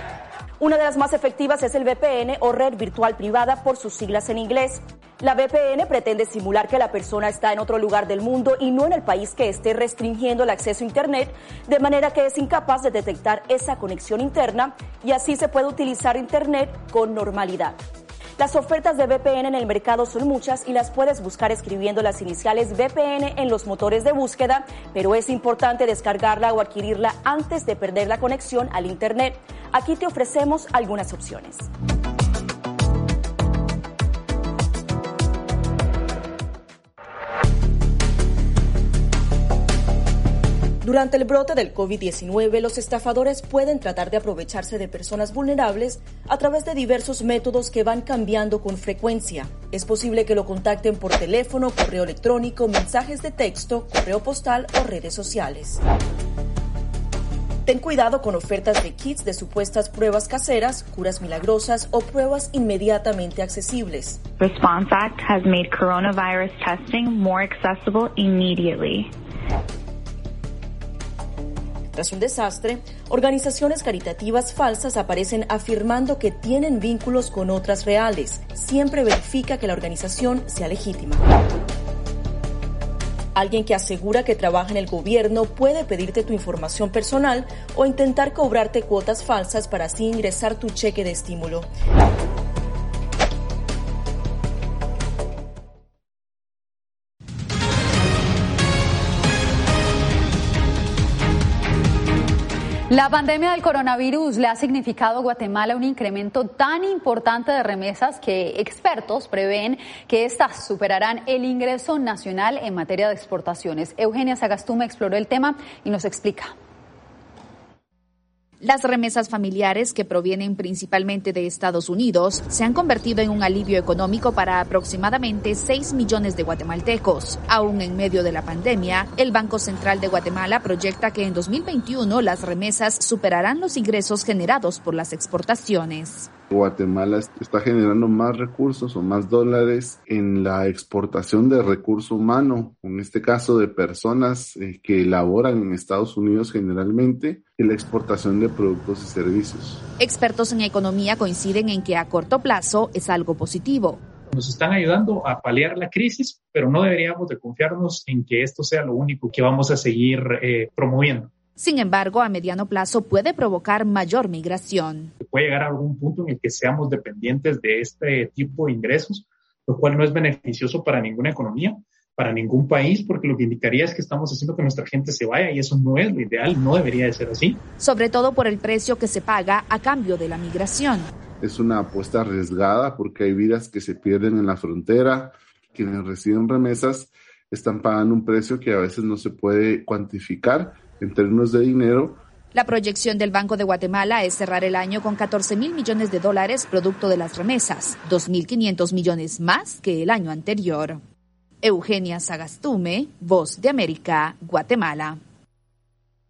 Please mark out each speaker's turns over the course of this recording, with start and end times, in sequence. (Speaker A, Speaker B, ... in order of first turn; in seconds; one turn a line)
Speaker A: 0.6-17.8
Speaker A: 18.4-31.7
Speaker A: 40.8-55.8
Speaker A: 57.6-64.2
Speaker B: 64.4-69.1
Speaker A: 71.9-81.3
Speaker A: 83.3-91.7
Speaker C: 102.9-116.5
Speaker D: 118.6-136.3
Speaker E: 136.5-149.8
Speaker D: 150.0-154.0
Speaker F: 154.3-161.3
Speaker D: 161.6-165.1
Speaker F: 165.3-177.6
Speaker D: 177.8-181.1
Speaker E: 181.4-192.2
Speaker D: 192.5-201.0
Speaker D: 201.6-205.2